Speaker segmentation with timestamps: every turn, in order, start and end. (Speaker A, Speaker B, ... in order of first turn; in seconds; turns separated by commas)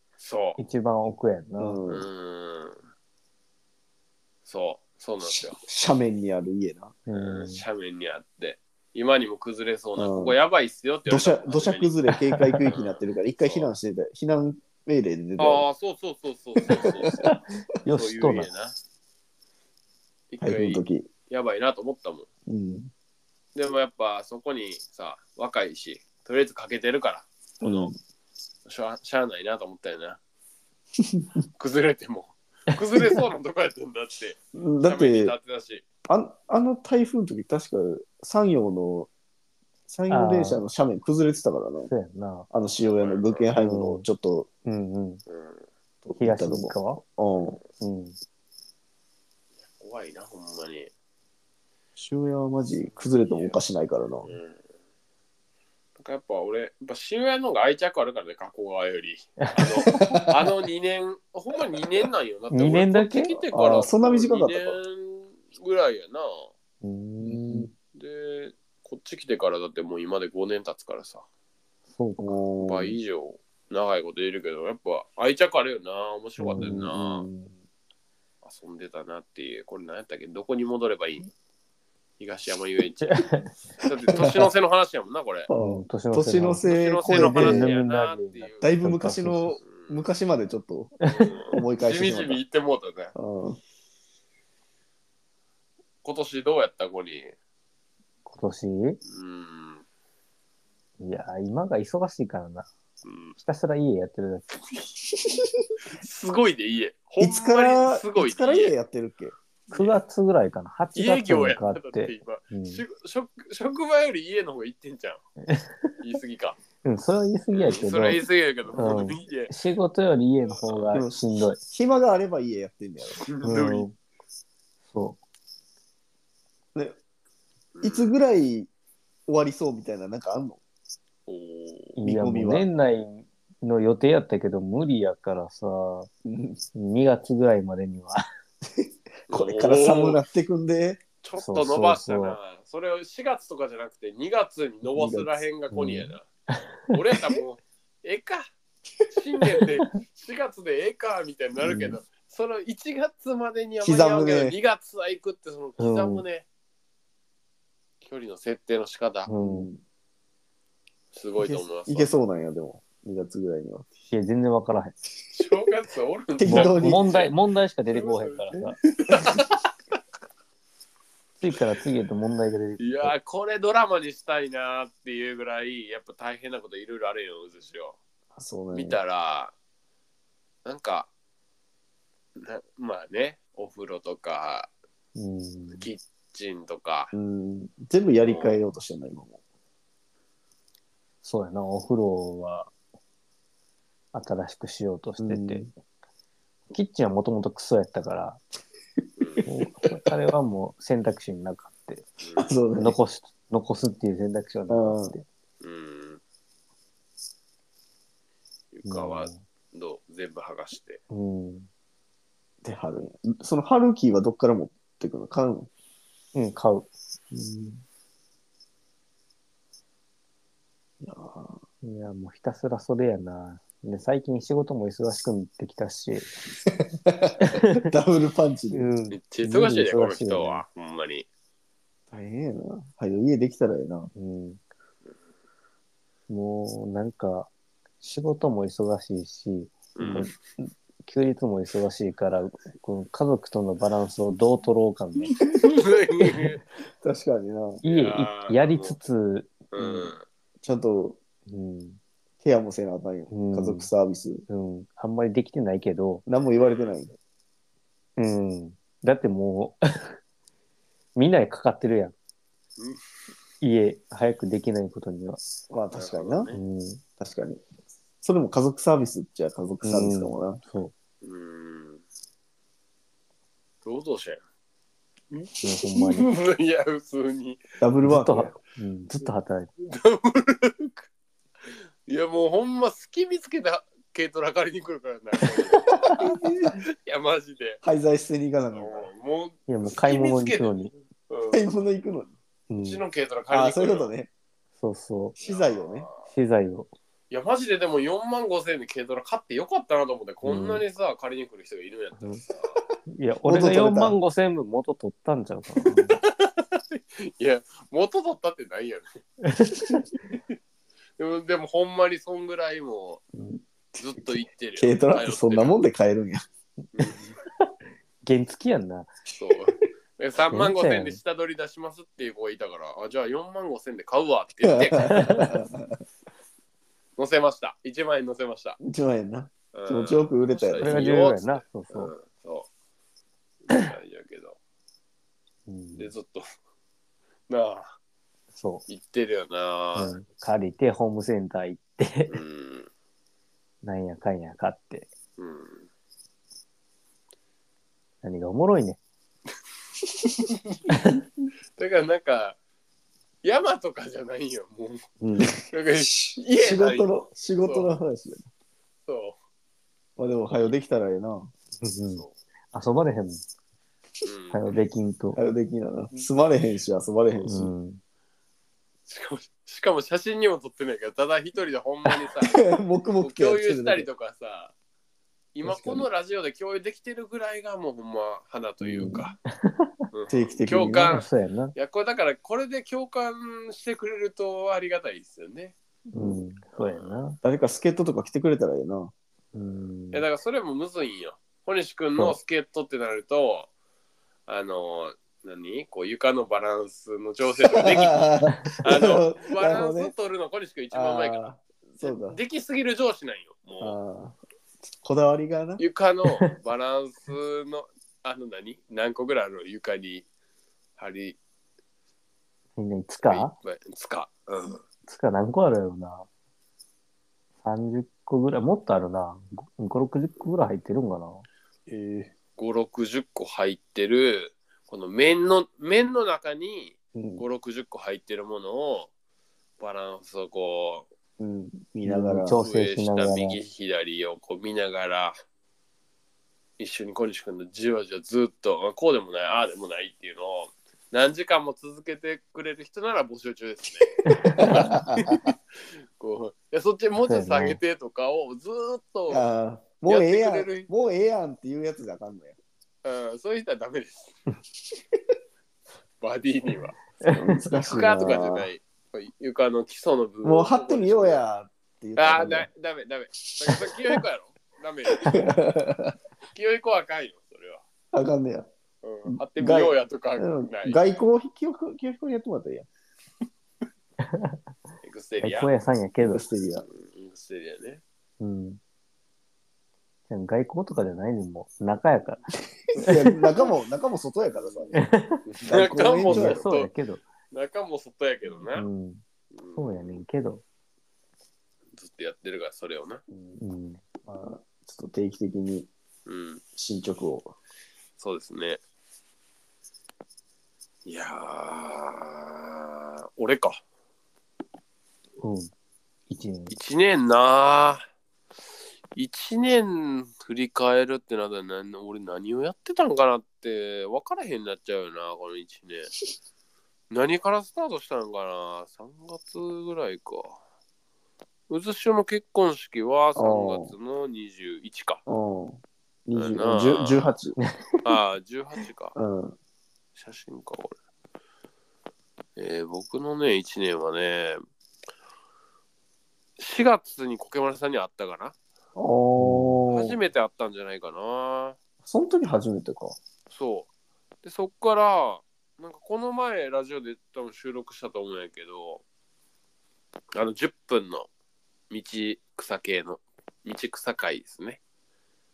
Speaker A: 0.2-0.6, Speaker B: 0.6-1.8, Speaker C: 1.6-2.1, Speaker A: 1.9-2.8, Speaker A: 4.5-5.6, Speaker C: 5.2-7.0, Speaker B: 7.1-7.6, Speaker A: 7.2-12.0, Speaker C: 10.0-10.4, Speaker C: 11.1-15.7, Speaker B: 12.3-12.6, Speaker A: 12.7-13.7, Speaker A: 15.4-17.2, Speaker C: 16.7-17.3, Speaker B: 17.2-18.5, Speaker A: 17.9-18.8, Speaker A: 20.3-22.3, Speaker C: 20.4-21.1, Speaker C: 22.5-22.9, Speaker A: 23.6-27.9, Speaker C: 27.6-27.9, Speaker A: 28.7-30.2, Speaker C: 31.0-31.4, Speaker A: 31.6-35.8, Speaker C: 34.5-35.3, Speaker C: 36.1-39.1, Speaker C: 39.9-41.9, Speaker B: 40.1-40.6, Speaker B: 41.9-42.5, Speaker C: 42.5-44.5, Speaker A: 42.8-43.5, Speaker B: 43.6-44.0, Speaker B: 44.7-45.2, Speaker A: 45.3-45.6, Speaker B: 46.1-47.0, Speaker C: 46.1-47.6, Speaker B: 47.8-48.2, Speaker A: 49.7-50.9, Speaker C: 52.0-54.3, Speaker A: 52.8-53.6, Speaker A: 54.3-54.6, Speaker A: 56.0-66.5, Speaker B: 59.4-60.1, Speaker C: 60.0-60.3, Speaker B: 62.5-63.4, Speaker C: 63.5-64.8, Speaker B: 66.8-67.7, Speaker C: 67.2-67.7, Speaker A: 67.9-71.2, Speaker B: 71.9-72.4, Speaker C: 72.2-73.0, Speaker A: 72.6-77.3, Speaker B: 76.4-76.9, Speaker C: 76.6-77.5, Speaker A: 78.4-81.3, Speaker A: 82.2-83.2, Speaker B: 83.0-83.6, Speaker A: 83.8-85.5, Speaker C: 84.2-84.5, Speaker C: 85.5-87.7, Speaker B: 85.5-89.6, Speaker A: 86.7-88.7, Speaker C: 88.6-92.4, Speaker A: 89.7-90.0, Speaker A: 91.1-93.1, Speaker C: 93.2-93.6, Speaker A: 96.0-97.3, Speaker B: 98.2-99.0, Speaker A: 99.1-99.8, Speaker B: 101.0-102.7, Speaker A: 103.0-103.4, Speaker B: 103.4-104.6, Speaker A: 105.9-108.7, Speaker C: 107.2-109.3, Speaker A: 109.7-110.0, Speaker B: 109.7-112.8, Speaker A: 111.0-115.2, Speaker B: 115.5-115.9, Speaker A: 116.0-116.6, Speaker B: 116.8-118.2, Speaker A: 117.5-119.5, Speaker B: 118.8-121.6, Speaker A: 120.5-121.0, Speaker C: 120.9-123.2, Speaker A: 123.1-123.9, Speaker B: 123.4-123.9, Speaker B: 124.9-125.2, Speaker A: 127.8-128.1, Speaker C: 127.8-128.7, Speaker C: 129.3-130.6, Speaker A: 131.3-132.0, Speaker B: 132.0-136.1, Speaker C: 132.0-132.7, Speaker C: 136.2-136.6, Speaker B: 136.7-138.2, Speaker C: 138.7-141.0, Speaker A: 139.3-140.2, Speaker A: 141.2-146.3, Speaker B: 141.4-142.4, Speaker C: 144.8-145.3, Speaker B: 145.7-146.6, Speaker A: 146.9-148.5, Speaker A: 149.1-156.5, Speaker C: 151.6-152.0, Speaker C: 153.8-154.6, Speaker B: 155.8-156.2, Speaker A: 158.0-159.3, Speaker B: 159.3-159.7, Speaker C: 159.4-159.8, Speaker A: 161.1-162.1, Speaker C: 161.4-163.9, Speaker B: 164.1-165.0, Speaker A: 165.3-167.3, Speaker C: 166.4-167.1, Speaker B: 166.4-168.8, Speaker A: 167.9-169.7, Speaker C: 168.6-169.4, Speaker B: 171.4-173.1, Speaker A: 172.8-178.0, Speaker C: 178.3-179.0, Speaker A: 178.7-179.5, Speaker A: 180.7-181.1, Speaker A: 182.4-184.7, Speaker B: 185.2-185.9, Speaker A: 185.8-187.1, Speaker C: 187.1-189.4, Speaker A: 188.2-188.6, Speaker B: 191.2-192.7, Speaker B: 194.1-195.7, Speaker C: 195.2-195.7, Speaker B: 196.7-198.4, Speaker A: 199.2-199.4, Speaker B: 199.4-202.1, Speaker A: 202.2-202.5, Speaker C: 202.4-203.0, Speaker B: 202.8-205.3, Speaker C: 204.7-205.2, Speaker A: 205.6-206.2, Speaker A: 208.7-211.0, Speaker B: 208.9-209.4, Speaker B: 211.1-211.7, Speaker C: 212.6-215.7, Speaker B: 216.3-216.9, Speaker C: 217.3-217.8, Speaker C: 221.0-221.6, Speaker B: 221.8-226.3, Speaker C: 226.7-228.9, Speaker B: 227.4-227.8, Speaker B: 228.7-230.6, Speaker A: 229.1-231.3, Speaker C: 232.1-234.1, Speaker B: 234.2-234.6, Speaker B: 236.3-237.5, Speaker B: 238.0-240.3, Speaker A: 239.9-240.3, Speaker C: 240.1-240.3, Speaker B: 241.1-245.3, Speaker A: 245.5-246.6, Speaker C: 247.0-247.8, Speaker B: 247.8-250.1, Speaker A: 247.8-249.0, Speaker A: 249.7-250.2, Speaker C: 250.6-251.2, Speaker B: 251.5-252.0, Speaker C: 252.4-254.4, Speaker B: 253.3-253.9, Speaker B: 254.5-256.2, Speaker C: 256.3-257.1, Speaker A: 256.6-256.9, Speaker B: 258.2-260.2, Speaker B: 261.2-262.1, Speaker B: 263.6-265.4, Speaker C: 265.7-266.5, Speaker A: 265.9-266.6, Speaker B: 266.5-267.0, Speaker C: 267.2-267.6, Speaker C: 268.2-270.6, Speaker B: 269.8-270.9, Speaker A: 271.2-272.0, Speaker A: 273.9-274.4, Speaker A: 275.3-277.6, Speaker B: 275.6-276.3, Speaker C: 277.8-278.5, Speaker B: 278.0-279.7, Speaker A: 279.8-281.1, Speaker A: 281.7-287.8, Speaker B: 285.8-286.2, Speaker C: 286.2-286.8, Speaker C: 287.8-289.1, Speaker A: 288.7-291.7, Speaker B: 289.7-290.9, Speaker C: 291.5-292.3, Speaker B: 292.7-293.0, Speaker A: 292.8-294.1, Speaker C: 293.5-294.3, Speaker B: 294.8-295.4, Speaker C: 295.4-296.1, Speaker A: 295.4-296.3, Speaker B: 296.3-296.9, Speaker A: 297.3-302.7, Speaker B: 300.4-300.8, Speaker B: 303.1-306.2, Speaker C: 303.4-304.2, Speaker A: 306.1-309.1, Speaker B: 309.4-310.1, Speaker A: 311.2-313.2, Speaker A: 314.0-315.8, Speaker C: 314.1-316.4, Speaker A: 316.9-317.4, Speaker B: 318.2-319.1, Speaker A: 319.4-325.4, Speaker B: 320.5-321.2, Speaker C: 324.6-326.0, Speaker B: 325.0-325.5, Speaker A: 327.2-328.8, Speaker C: 328.8-331.1, Speaker A: 329.7-332.7, Speaker B: 330.8-332.1, Speaker A: 333.6-334.6, Speaker B: 335.7-336.1, Speaker A: 336.0-336.5, Speaker A: 337.5-337.9, Speaker B: 338.5-338.9, Speaker A: 338.9-340.2, Speaker B: 339.9-342.4, Speaker A: 342.3-342.9, Speaker B: 343.8-345.1, Speaker A: 345.4-345.9, Speaker B: 348.2-349.0, Speaker A: 350.5-350.8, Speaker B: 350.9-351.2, Speaker A: 351.8-352.6, Speaker A: 353.4-355.1, Speaker C: 355.2-355.6, Speaker A: 355.6-357.9, Speaker C: 356.5-358.5, Speaker A: 359.1-359.4, Speaker C: 360.2-361.5, Speaker B: 361.8-363.4, Speaker A: 364.2-364.6, Speaker B: 364.5-365.4, Speaker C: 365.4-367.7, Speaker A: 366.1-366.4, Speaker B: 367.5-368.0, Speaker A: 369.1-372.6, Speaker C: 372.4-374.1, Speaker A: 373.2-374.7, Speaker A: 375.5-379.4, Speaker C: 375.7-376.0, Speaker B: 379.0-379.9, Speaker A: 380.1-385.8, Speaker C: 380.3-381.2, Speaker B: 381.1-381.8, Speaker B: 386.1-387.4, Speaker A: 386.8-387.2, Speaker C: 387.4-389.1, Speaker B: 389.5-390.2, Speaker A: 390.1-393.7, Speaker A: 394.5-401.4, Speaker C: 397.6-400.1, Speaker C: 400.9-402.4, Speaker A: 402.0-404.0, Speaker C: 403.8-404.4, Speaker C: 405.0-405.8, Speaker A: 405.8-410.3, Speaker A: 411.0-411.4, Speaker B: 412.8-413.5, Speaker A: 413.2-414.8, Speaker B: 415.1-416.3, Speaker B: 417.6-421.4, Speaker A: 421.9-429.1, Speaker C: 427.2-427.5, Speaker A: 429.8-431.1, Speaker C: 431.4-432.6, Speaker B: 432.1-433.6, Speaker A: 432.6-435.4, Speaker A: 436.8-449.4, Speaker B: 444.3-444.9, Speaker C: 444.4-445.4, Speaker B: 447.3-447.8, Speaker C: 449.3-452.6, Speaker A: 450.1-450.9, Speaker A: 453.0-454.4, Speaker A: 456.2-457.0, Speaker C: 457.3-458.7, Speaker A: 457.7-461.4, Speaker C: 460.4-462.7, Speaker A: 462.2-465.5, Speaker C: 463.6-463.9, Speaker C: 465.2-466.1, Speaker A: 466.5-467.8, Speaker C: 468.1-468.7, Speaker A: 469.0-471.0, Speaker C: 469.3-472.9, Speaker B: 474.2-474.6, Speaker A: 475.0-475.7, Speaker B: 475.4-476.4, Speaker C: 476.2-476.9, Speaker A: 476.9-478.0, Speaker B: 478.4-478.8, Speaker B: 480.3-482.4, Speaker A: 482.9-483.7, Speaker C: 482.9-485.0, Speaker A: 484.5-486.9, Speaker B: 484.9-485.4, Speaker C: 485.7-486.6, Speaker B: 486.3-487.2, Speaker A: 487.5-488.9, Speaker B: 488.7-489.2, Speaker A: 489.5-490.2, Speaker B: 489.8-490.6, Speaker A: 492.0-493.2, Speaker C: 493.3-493.6, Speaker B: 493.6-494.0, Speaker C: 494.2-495.9, Speaker A: 496.3-496.6, Speaker C: 496.8-497.5, Speaker A: 498.2-498.8, Speaker A: 501.1-503.8, Speaker B: 505.4-505.7, Speaker B: 506.3-506.7, Speaker A: 506.7-508.0, Speaker A: 509.2-516.1, Speaker A: 517.1-520.6, Speaker A: 521.7-525.2, Speaker C: 523.4-523.9, Speaker C: 525.3-527.6, Speaker A: 526.4-527.3, Speaker B: 527.6-528.0, Speaker A: 528.0-529.2, Speaker C: 529.2-529.6, Speaker A: 530.2-531.0, Speaker A: 532.6-534.6, Speaker A: 536.6-538.6, Speaker C: 539.0-540.2, Speaker B: 539.4-539.8, Speaker A: 539.9-541.8, Speaker C: 542.0-543.2, Speaker A: 543.5-543.9, Speaker A: 544.4-549.0, Speaker A: 550.4-551.3, Speaker A: 551.9-554.8